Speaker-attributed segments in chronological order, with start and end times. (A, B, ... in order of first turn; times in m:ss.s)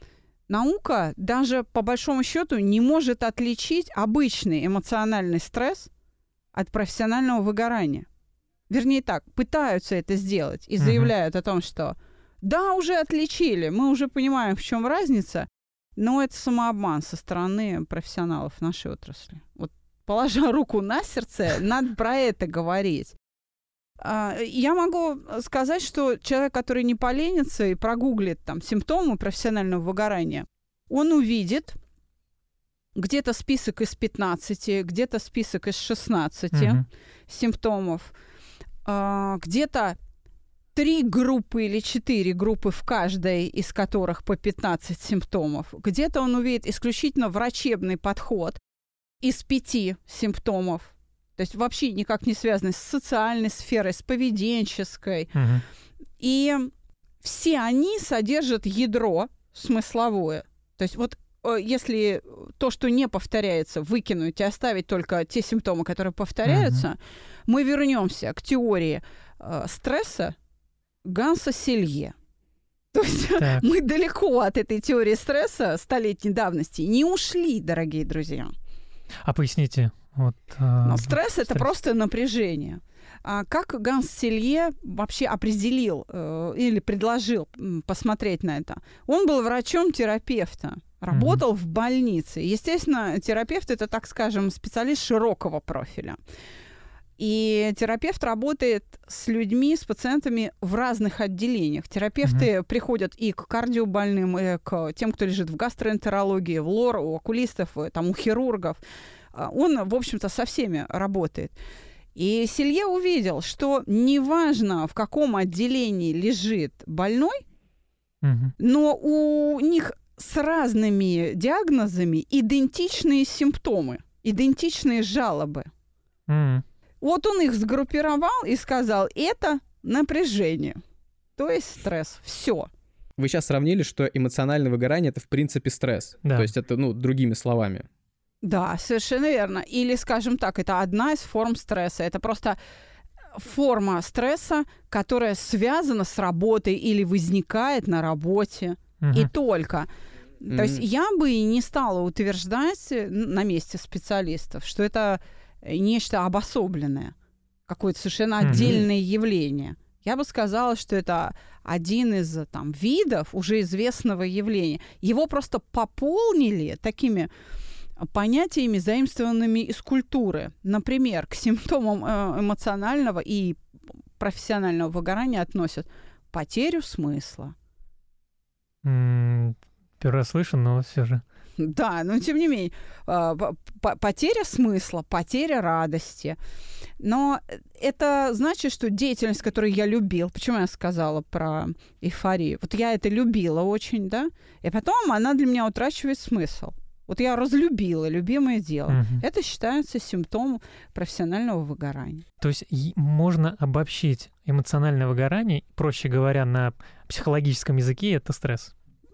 0:00.5-0:05.9 A
0:06.5-0:08.1 A
0:08.7-0:23.2 A
0:10.8-0:11.1 B
0:24.0-0:31.8 A
0:32.9-0:38.1 A
0:36.5-0:36.8 B
0:38.8-0:40.0 A
0:40.7-0:48.6 A
0:49.2-0:55.3 A
0:55.3-0:55.6 B
0:56.2-1:10.3 A
1:06.4-1:06.8 B
1:11.0-1:12.1 A
1:12.9-1:18.5 A
1:13.4-1:13.7 B
1:19.2-1:21.6 B
1:20.8-1:36.2 A
1:31.1-1:31.4 B
1:37.2-1:48.8 A
1:49.3-1:51.6 A
1:52.1-1:57.4 A
1:58.2-1:58.5 B
1:58.6-2:05.7 A
2:06.3-2:06.6 B
2:07.0-2:10.8 A
2:11.4-2:12.7 A
2:13.2-2:17.9 C
2:16.2-2:16.5 B
2:18.4-2:22.6 A
2:23.3-2:29.9 A
2:29.0-2:29.3 B
2:30.4-2:37.1 A
2:30.5-2:30.8 C
2:37.7-2:47.3 A
2:38.4-2:38.8 B
2:48.0-2:53.6 A
2:54.2-2:57.5 A
2:58.8-3:01.2 B
3:01.6-3:06.4 A
3:07.0-3:22.2 A
3:18.9-3:19.2 B
3:22.4-3:28.7 B